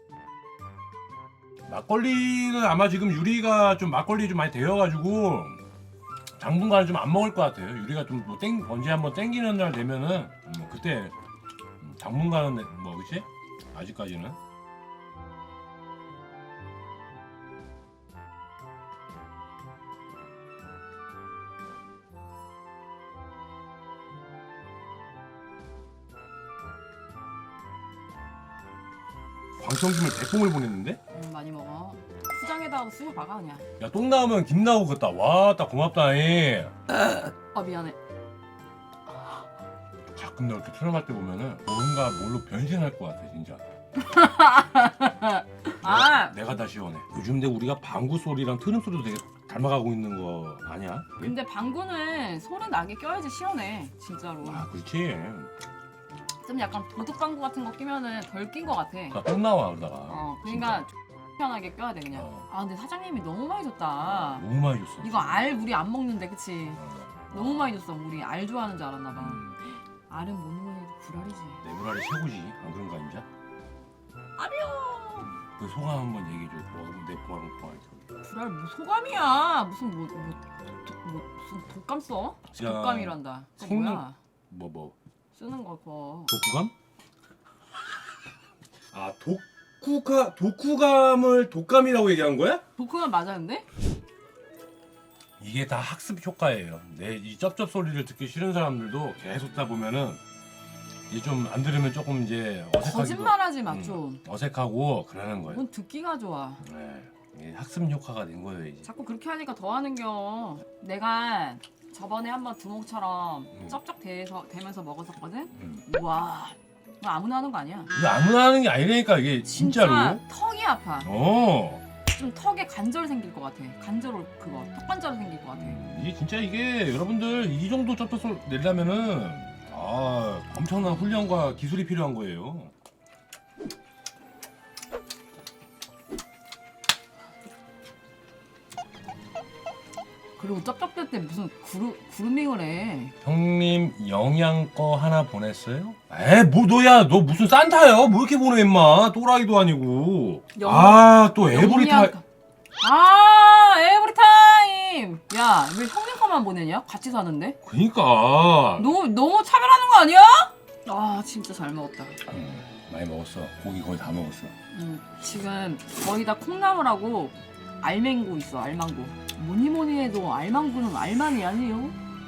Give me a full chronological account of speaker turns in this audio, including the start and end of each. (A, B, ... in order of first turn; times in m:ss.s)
0:01.7-0:05.6 A
0:06.4-0:11.1 A
0:11.8-0:14.4 A
0:29.6-0:31.0 A
0:31.1-0:33.6 B
0:33.8-0:36.7 A
0:37.5-0:38.0 B
0:40.1-0:43.6 A
0:44.0-0:46.3 B
0:45.8-0:51.3 A
0:51.2-0:54.6 B
0:54.4-0:55.5 A
0:56.4-0:59.2 B
0:59.1-1:00.9 A
1:00.1-1:04.4 B
1:02.1-1:02.5 A
1:04.0-1:05.5 A
1:05.0-1:09.4 B
1:06.8-1:07.8 A
1:09.1-1:09.6 A
1:10.1-1:11.6 B
1:11.6-1:13.2 A
1:14.4-1:15.3 B
1:15.3-1:18.0 A
1:18.2-1:24.2 B
1:22.5-1:24.9 A
1:25.3-1:26.3 B
1:26.3-1:26.7 A
1:28.9-1:32.6 A
1:32.8-1:33.6 B
1:35.4-1:40.2 A
1:41.1-1:45.6 A
1:42.8-1:44.2 B
1:45.5-1:46.6 B
1:46.6-1:48.9 A
1:48.8-1:57.9 B
1:55.6-1:55.8 A
1:57.9-2:00.2 A
1:59.4-2:01.1 B
2:01.0-2:01.8 A
2:02.1-2:05.8 B
2:05.5-2:12.7 A
2:20.4-2:23.1 B
2:23.2-2:32.1 A
2:30.5-2:32.2 B
2:32.8-2:37.6 B
2:37.6-2:38.9 A
2:38.8-2:42.2 B
2:42.2-2:44.5 A
2:44.7-2:52.0 B